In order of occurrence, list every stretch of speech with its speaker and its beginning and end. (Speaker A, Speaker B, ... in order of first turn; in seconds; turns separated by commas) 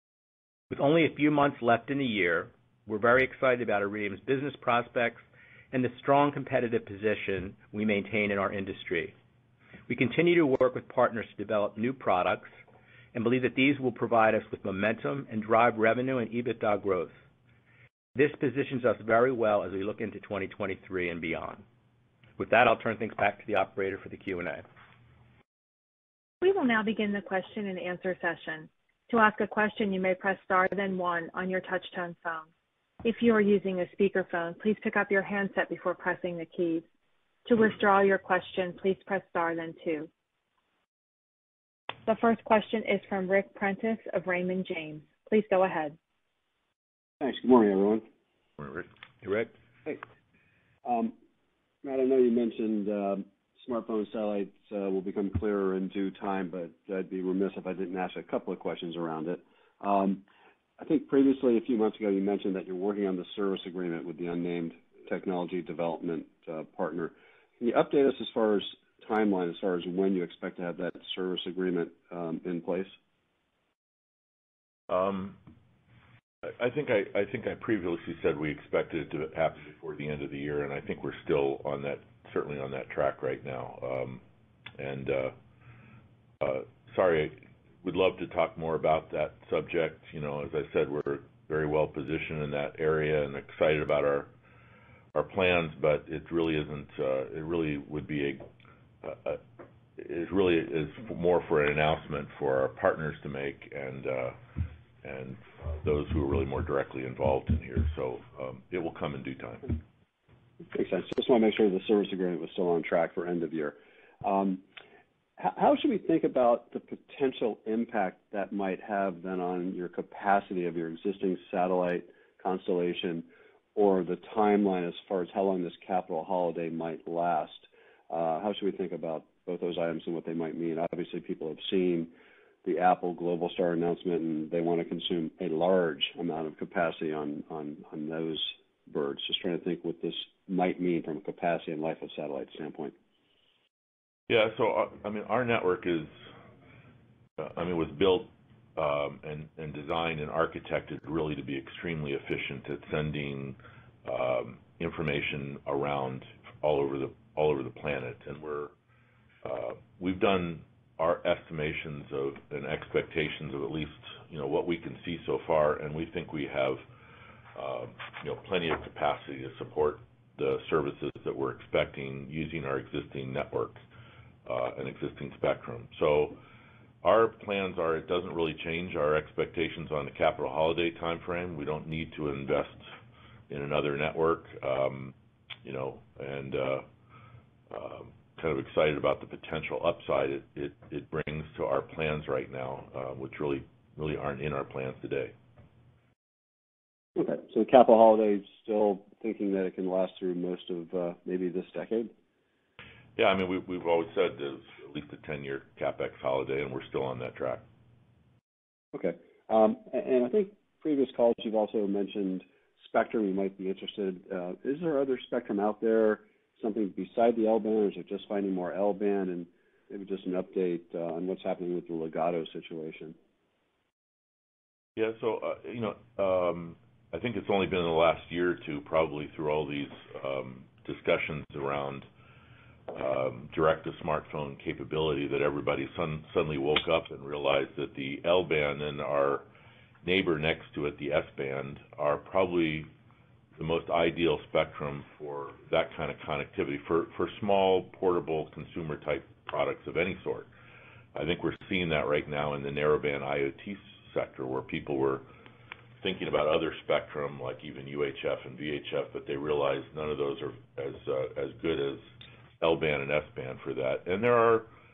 Speaker A: 0.7-9.1, Speaker A: 9.9-12.5, Speaker A: 13.1-17.2, Speaker A: 18.1-21.6, Speaker A: 22.4-24.6, Speaker B: 26.4-32.5, Speaker B: 33.0-36.9, Speaker B: 37.5-40.1, Speaker B: 42.0-46.0, Speaker C: 47.2-48.0, Speaker D: 48.6-48.9, Speaker A: 49.2-49.5, Speaker C: 50.8-51.1, Speaker C: 51.8-60.2, Speaker C: 60.8-72.9, Speaker D: 74.9-75.4, Speaker D: 76.4-84.2, Speaker D: 84.8-85.3, Speaker D: 86.4-94.3, Speaker D: 95.1-98.5, Speaker D: 99.0-99.4, Speaker D: 100.0-104.4, Speaker D: 105.0-109.8, Speaker C: 110.7-114.6, Speaker C: 115.4-132.1, Speaker C: 132.6-142.9, Speaker D: 144.3-146.2, Speaker D: 147.4-158.7, Speaker D: 159.4-166.8, Speaker D: 167.5-173.8, Speaker D: 174.4-176.4, Speaker D: 177.0-182.9, Speaker D: 183.5-186.9, Speaker D: 187.7-195.3, Speaker C: 197.2-202.1, Speaker D: 203.2-207.6, Speaker C: 208.9-223.2, Speaker D: 224.9-232.1, Speaker D: 232.9-239.4, Speaker D: 240.0-242.9, Speaker D: 243.6-250.5, Speaker D: 251.1-255.3, Speaker D: 256.0-264.7